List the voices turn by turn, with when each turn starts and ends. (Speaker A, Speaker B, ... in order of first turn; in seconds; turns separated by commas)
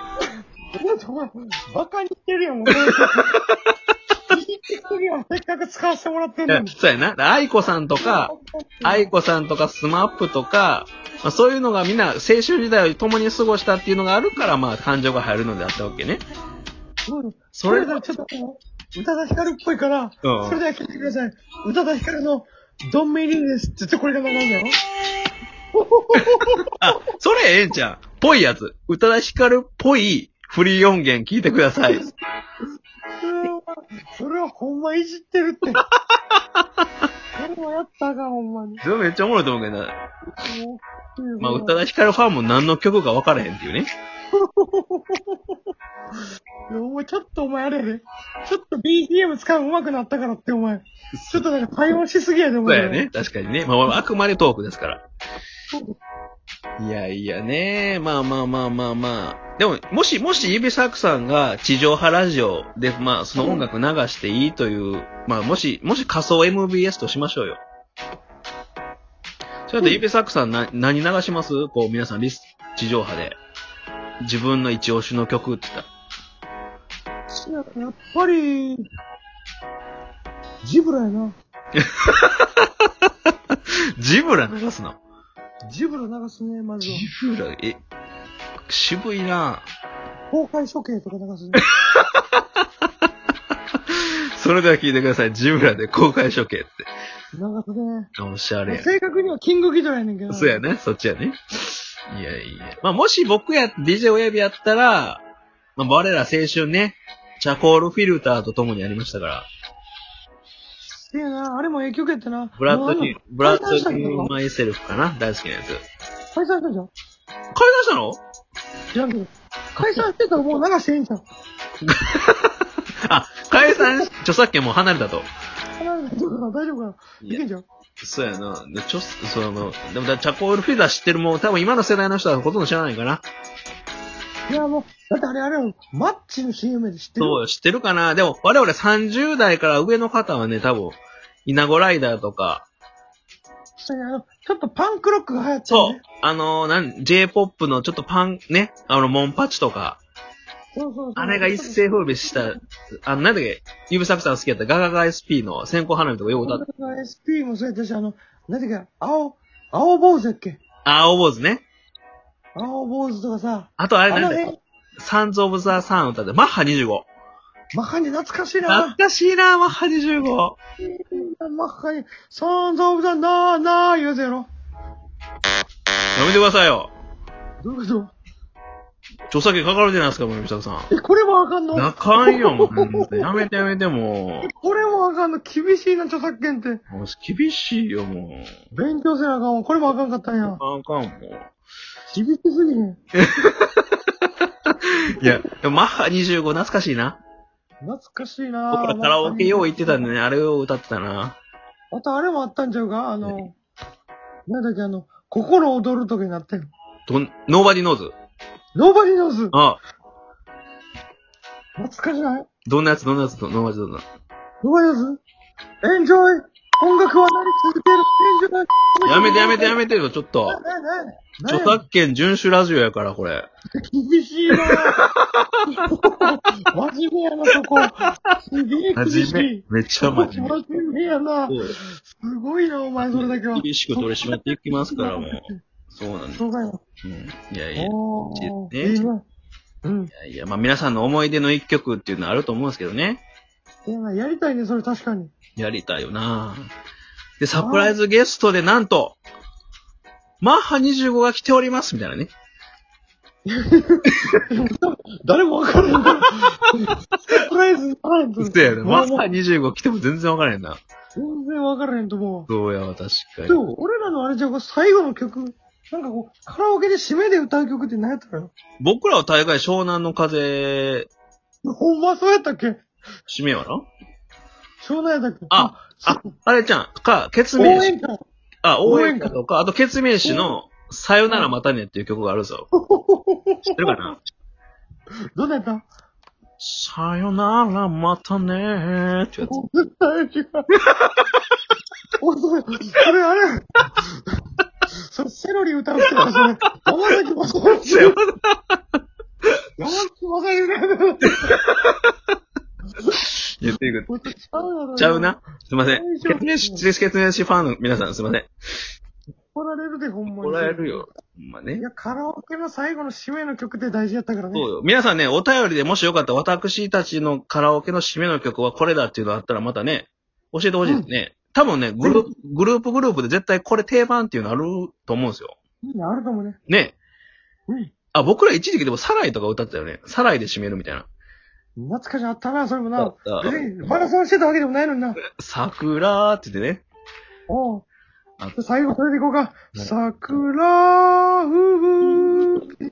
Speaker A: 0.7-3.4, Speaker B: 2.7-3.5, Speaker A: 4.3-6.7, Speaker B: 6.5-8.3, Speaker A: 8.0-9.1, Speaker B: 8.8-16.2, Speaker A: 17.1-24.8, Speaker B: 17.5-18.0, Speaker B: 20.2-20.6, Speaker A: 25.8-26.6, Speaker B: 26.1-32.0, Speaker A: 33.2-35.8, Speaker A: 37.4-38.8, Speaker B: 38.8-40.0, Speaker A: 40.4-41.8, Speaker B: 41.4-43.9, Speaker A: 44.3-45.4, Speaker A: 46.7-53.0, Speaker B: 51.1-51.5, Speaker B: 52.6-55.0, Speaker B: 56.8-67.6, Speaker A: 63.4-63.6, Speaker B: 69.7-73.4, Speaker B: 74.2-75.9, Speaker A: 77.3-78.9, Speaker A: 80.6-81.4, Speaker B: 81.8-82.7, Speaker B: 84.0-85.0, Speaker A: 85.7-87.1, Speaker B: 86.8-87.8, Speaker B: 88.7-89.7, Speaker A: 90.3-91.6, Speaker B: 91.6-92.4, Speaker B: 93.9-96.9, Speaker A: 97.3-98.1, Speaker B: 98.2-98.9, Speaker A: 98.7-100.6, Speaker B: 100.3-105.2, Speaker B: 105.8-109.5, Speaker A: 111.0-114.3, Speaker B: 112.6-115.8, Speaker A: 116.3-116.9, Speaker B: 117.5-118.2, Speaker A: 118.9-121.2, Speaker B: 119.8-120.0, Speaker B: 121.9-122.5, Speaker B: 123.1-125.3, Speaker A: 123.6-124.1, Speaker A: 125.8-127.7, Speaker B: 128.0-133.2, Speaker A: 134.5-137.4, Speaker B: 137.2-142.7, Speaker A: 143.8-146.0, Speaker B: 145.7-150.0, Speaker A: 150.7-152.6, Speaker B: 151.2-156.6, Speaker A: 156.4-160.6, Speaker B: 160.8-161.7, Speaker A: 162.6-164.6, Speaker B: 163.8-164.4, Speaker B: 165.0-167.1, Speaker A: 167.7-169.0, Speaker B: 168.7-170.6, Speaker A: 170.8-174.5, Speaker B: 176.2-176.9, Speaker A: 177.6-178.1, Speaker B: 179.3-180.9, Speaker A: 180.9-183.3, Speaker B: 181.7-184.5, Speaker A: 184.4-186.8, Speaker B: 186.9-188.5, Speaker A: 188.7-190.6, Speaker B: 190.5-191.5, Speaker A: 192.1-193.0, Speaker B: 193.2-193.8, Speaker B: 195.1-197.2, Speaker A: 197.8-200.0, Speaker B: 198.7-201.4, Speaker A: 201.9-203.6, Speaker A: 204.5-206.7, Speaker B: 207.1-208.2, Speaker A: 208.8-209.6, Speaker B: 209.5-209.8, Speaker A: 211.8-212.5, Speaker B: 212.7-214.1, Speaker A: 214.6-215.2, Speaker A: 215.8-219.8, Speaker B: 219.1-220.6, Speaker A: 220.5-221.8, Speaker B: 221.5-223.5, Speaker A: 223.8-225.0, Speaker B: 224.7-225.7, Speaker A: 225.8-235.6, Speaker B: 229.0-230.6, Speaker B: 231.5-231.7, Speaker B: 233.0-236.4, Speaker A: 236.4-236.8, Speaker B: 237.0-239.1, Speaker A: 237.8-239.2, Speaker A: 239.8-240.1, Speaker B: 240.1-243.2, Speaker A: 243.9-245.3, Speaker B: 245.6-246.7, Speaker B: 247.4-249.2, Speaker A: 247.6-247.9, Speaker B: 250.4-252.3, Speaker A: 253.5-259.3, Speaker B: 258.4-260.8, Speaker A: 261.2-262.5, Speaker B: 262.5-263.6, Speaker A: 263.5-268.5, Speaker B: 268.8-271.1, Speaker A: 271.6-272.8, Speaker B: 273.3-273.9, Speaker A: 274.8-276.3, Speaker B: 275.5-277.9, Speaker A: 277.6-278.2, Speaker B: 278.6-282.7, Speaker A: 278.8-279.4, Speaker A: 280.2-280.6, Speaker A: 282.8-284.1, Speaker B: 283.7-284.2, Speaker A: 285.4-285.9, Speaker B: 286.6-289.5, Speaker A: 289.4-290.7, Speaker A: 292.2-293.6, Speaker A: 295.1-298.2, Speaker B: 297.9-298.8, Speaker A: 299.8-301.5, Speaker B: 301.3-302.1, Speaker B: 303.6-304.1, Speaker A: 304.1-306.9, Speaker B: 305.0-308.5, Speaker A: 309.5-311.1, Speaker B: 310.3-311.8, Speaker A: 311.8-314.7, Speaker B: 314.5-325.6, Speaker A: 325.8-326.6, Speaker B: 326.7-327.0, Speaker B: 328.1-331.1, Speaker A: 331.8-335.2, Speaker B: 333.0-333.6, Speaker B: 335.4-336.9, Speaker A: 337.5-337.8, Speaker A: 338.6-342.7